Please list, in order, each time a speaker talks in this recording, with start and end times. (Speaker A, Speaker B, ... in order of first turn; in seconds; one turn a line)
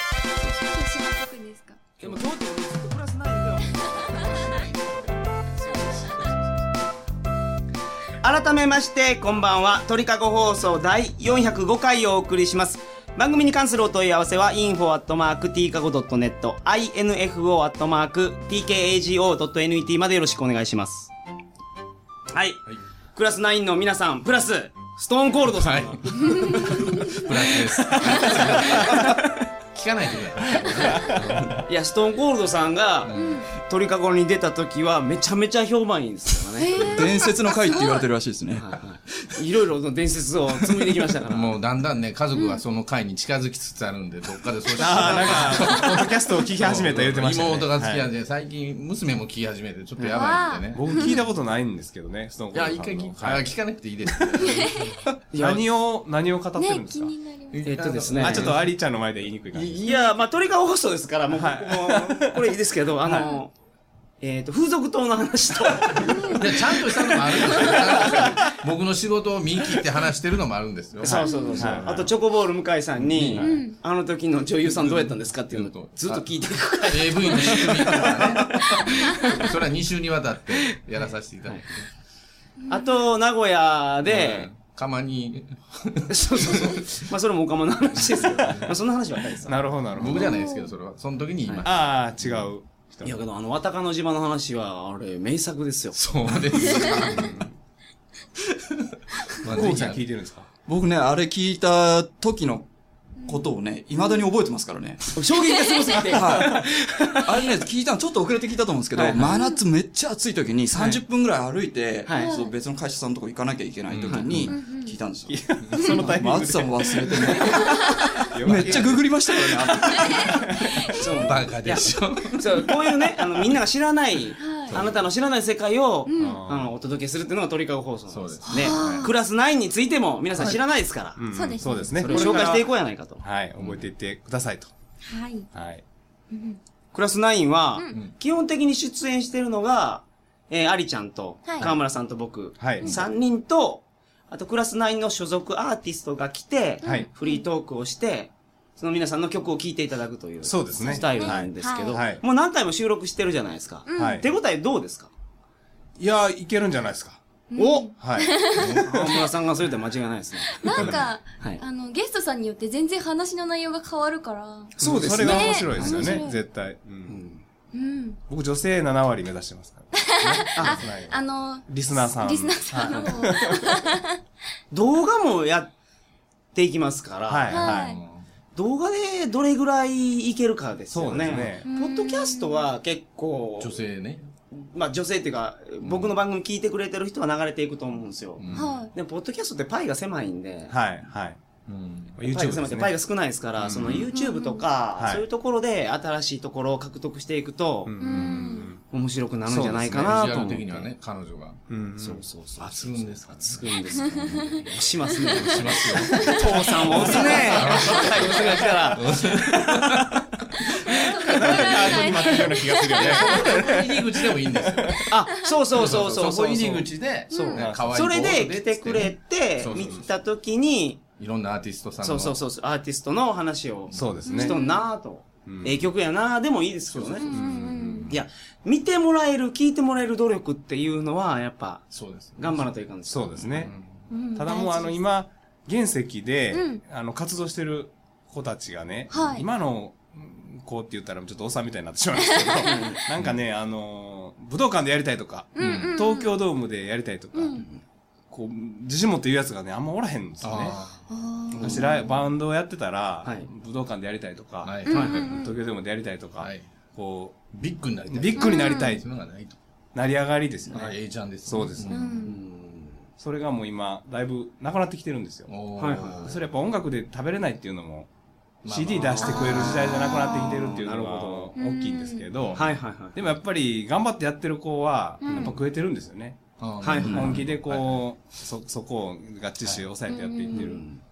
Speaker A: 0.6-1.8
Speaker B: 2.0-6.5
Speaker A: 3.8-4.6
Speaker C: 3.9-5.2
Speaker A: 5.9-6.3
Speaker B: 8.2-21.1
Speaker B: 22.3-27.2
Speaker C: 25.4-29.2
Speaker B: 28.0-29.1
Speaker C: 29.7-31.6
Speaker D: 30.6-31.2
Speaker B: 30.8-31.1
Speaker B: 31.6-37.2
Speaker C: 33.0-33.5
Speaker A: 33.1-33.5
Speaker A: 36.6-38.1
Speaker E: 36.9-39.4
Speaker B: 38.5-41.5
Speaker C: 41.3-51.2
Speaker A: 42.3-42.6
Speaker D: 44.7-48.1
Speaker B: 44.8-45.7
Speaker B: 50.0-50.2
Speaker A: 50.1-51.2
Speaker D: 50.7-53.5
Speaker C: 52.5-55.0
Speaker D: 54.3-54.7
Speaker B: 55.3-55.6
Speaker D: 55.4-57.1
Speaker A: 56.6-57.6
Speaker C: 57.5-58.7
Speaker B: 57.6-58.5
Speaker D: 58.1-59.9
Speaker C: 59.5-59.8
Speaker B: 59.7-63.5
Speaker D: 61.3-62.4
Speaker D: 63.0-63.3
Speaker B: 64.2-68.3
Speaker A: 66.0-66.5
Speaker C: 66.3-72.1
Speaker B: 71.0-79.5
Speaker D: 71.0-72.1
Speaker A: 71.3-71.5
Speaker C: 73.0-73.5
Speaker D: 73.3-73.6
Speaker A: 73.4-73.8
Speaker C: 74.6-81.9
Speaker B: 81.4-81.7
Speaker A: 82.6-83.0
Speaker B: 82.7-84.5
Speaker C: 84.0-87.0
Speaker B: 86.1-89.6
Speaker C: 87.9-88.8
Speaker D: 89.5-90.4
Speaker C: 89.9-92.5
Speaker A: 90.1-90.7
Speaker D: 91.6-93.2
Speaker B: 93.0-96.0
Speaker C: 95.9-97.4
Speaker A: 96.7-97.1
Speaker D: 97.0-97.5
Speaker C: 98.4-100.0
Speaker D: 99.4-100.5
Speaker E: 100.7-102.6
Speaker E: 103.2-105.2
Speaker A: 103.9-104.2
Speaker B: 105.2-107.4
Speaker A: 105.5-106.0
Speaker E: 106.1-106.7
Speaker E: 107.2-120.3
Speaker B: 108.9-109.3
Speaker A: 109.3-109.5
Speaker B: 110.7-111.0
Speaker B: 112.0-112.4
Speaker A: 112.1-112.5
Speaker C: 113.9-114.6
Speaker B: 114.1-114.5
Speaker A: 114.5-115.0
Speaker D: 115.3-120.8
Speaker C: 115.6-116.0
Speaker A: 117.6-118.2
Speaker C: 118.5-119.0
Speaker A: 119.9-120.4
Speaker B: 120.9-131.2
Speaker A: 121.0-121.3
Speaker C: 121.2-122.5
Speaker A: 124.4-124.8
Speaker C: 124.7-125.0
Speaker A: 126.1-126.4
Speaker D: 126.2-126.7
Speaker C: 128.1-129.1
Speaker A: 128.5-129.1
Speaker D: 131.2-132.7
Speaker A: 131.3-132.5
Speaker B: 131.9-133.2
Speaker D: 133.2-134.7
Speaker C: 133.6-133.9
Speaker A: 135.0-135.5
Speaker D: 135.5-135.8
Speaker A: 136.3-136.6
Speaker B: 136.9-155.1
Speaker A: 137.8-138.0
Speaker A: 141.4-141.7
Speaker D: 142.6-143.0
Speaker A: 146.8-147.4
Speaker D: 150.4-152.2
Speaker A: 150.8-152.0
Speaker A: 153.8-154.2
Speaker D: 153.9-154.3
Speaker D: 156.0-157.2
Speaker A: 157.5-158.7
Speaker B: 157.5-157.9
Speaker D: 158.0-159.3
Speaker C: 158.5-158.9
Speaker B: 158.6-161.6
Speaker A: 160.5-166.4
Speaker D: 164.8-167.2
Speaker B: 164.8-166.2
Speaker B: 167.1-167.4
Speaker A: 167.7-168.2
Speaker D: 168.3-173.9
Speaker A: 169.9-174.2
Speaker B: 170.5-170.8
Speaker B: 172.9-173.1
Speaker B: 174.7-175.7
Speaker B: 176.5-177.7
Speaker D: 177.3-178.0
Speaker A: 177.5-178.0
Speaker C: 177.7-178.2
Speaker B: 178.5-183.8
Speaker D: 180.9-181.7
Speaker C: 181.1-181.5
Speaker A: 181.6-182.6
Speaker C: 183.6-184.3
Speaker B: 184.5-190.7
Speaker C: 185.8-186.1
Speaker C: 188.4-188.9
Speaker A: 188.5-188.9
Speaker D: 190.7-191.4
Speaker C: 191.7-192.2
Speaker D: 192.2-192.9
Speaker B: 192.2-197.9
Speaker D: 193.6-194.1
Speaker C: 193.8-194.1
Speaker A: 194.1-194.6
Speaker D: 194.9-195.2
Speaker D: 197.8-198.8
Speaker A: 198.0-198.7
Speaker C: 198.0-198.6
Speaker B: 198.9-200.9
Speaker C: 199.5-201.6
Speaker D: 199.5-199.8
Speaker D: 201.7-202.2
Speaker B: 202.0-212.4
Speaker C: 202.6-204.1
Speaker A: 204.0-208.5
Speaker C: 205.2-210.2
Speaker D: 206.8-208.4
Speaker A: 210.9-214.0
Speaker D: 211.2-215.1
Speaker C: 212.9-215.1
Speaker B: 215.1-221.0
Speaker C: 215.7-220.1
Speaker A: 217.3-217.6
Speaker D: 217.5-218.0
Speaker C: 221.2-222.4
Speaker B: 222.0-227.3
Speaker C: 223.9-224.2
Speaker D: 223.9-224.6
Speaker A: 224.3-224.9
Speaker D: 225.4-225.8
Speaker C: 226.9-228.2
Speaker A: 227.2-228.1
Speaker D: 227.3-228.2
Speaker B: 228.1-233.7
Speaker C: 231.9-232.7
Speaker D: 233.1-233.7
Speaker C: 233.4-234.1
Speaker A: 234.1-235.0
Speaker D: 234.3-247.6
Speaker A: 236.5-236.8
Speaker A: 239.1-239.5
Speaker A: 242.4-242.8
Speaker B: 242.6-243.0
Speaker A: 245.6-246.4
Speaker C: 245.6-246.0
Speaker A: 247.3-247.6
Speaker B: 247.6-247.8
Speaker D: 248.3-250.8
Speaker C: 250.4-251.0
Speaker A: 251.1-252.3
Speaker B: 251.6-252.0
Speaker D: 251.6-257.4
Speaker B: 253.2-253.5
Speaker C: 254.6-255.5
Speaker A: 254.8-255.6
Speaker B: 254.9-255.3
Speaker C: 256.4-256.6
Speaker C: 257.5-259.6
Speaker D: 258.1-259.0
Speaker A: 258.4-259.0
Speaker D: 259.9-262.1
Speaker C: 260.7-262.2
Speaker A: 261.9-262.4
Speaker B: 262.2-263.0
Speaker D: 263.2-265.5
Speaker C: 265.5-266.5
Speaker B: 265.8-266.2
Speaker D: 266.1-268.1
Speaker C: 268.6-269.7
Speaker D: 268.7-276.4
Speaker B: 269.1-271.5
Speaker A: 269.2-270.7
Speaker A: 271.6-272.3
Speaker C: 272.4-272.8
Speaker B: 272.5-273.2
Speaker A: 275.2-275.6
Speaker B: 275.2-275.6
Speaker C: 276.6-278.0
Speaker B: 276.8-277.4
Speaker D: 277.0-280.8
Speaker A: 280.1-280.8
Speaker B: 280.5-281.0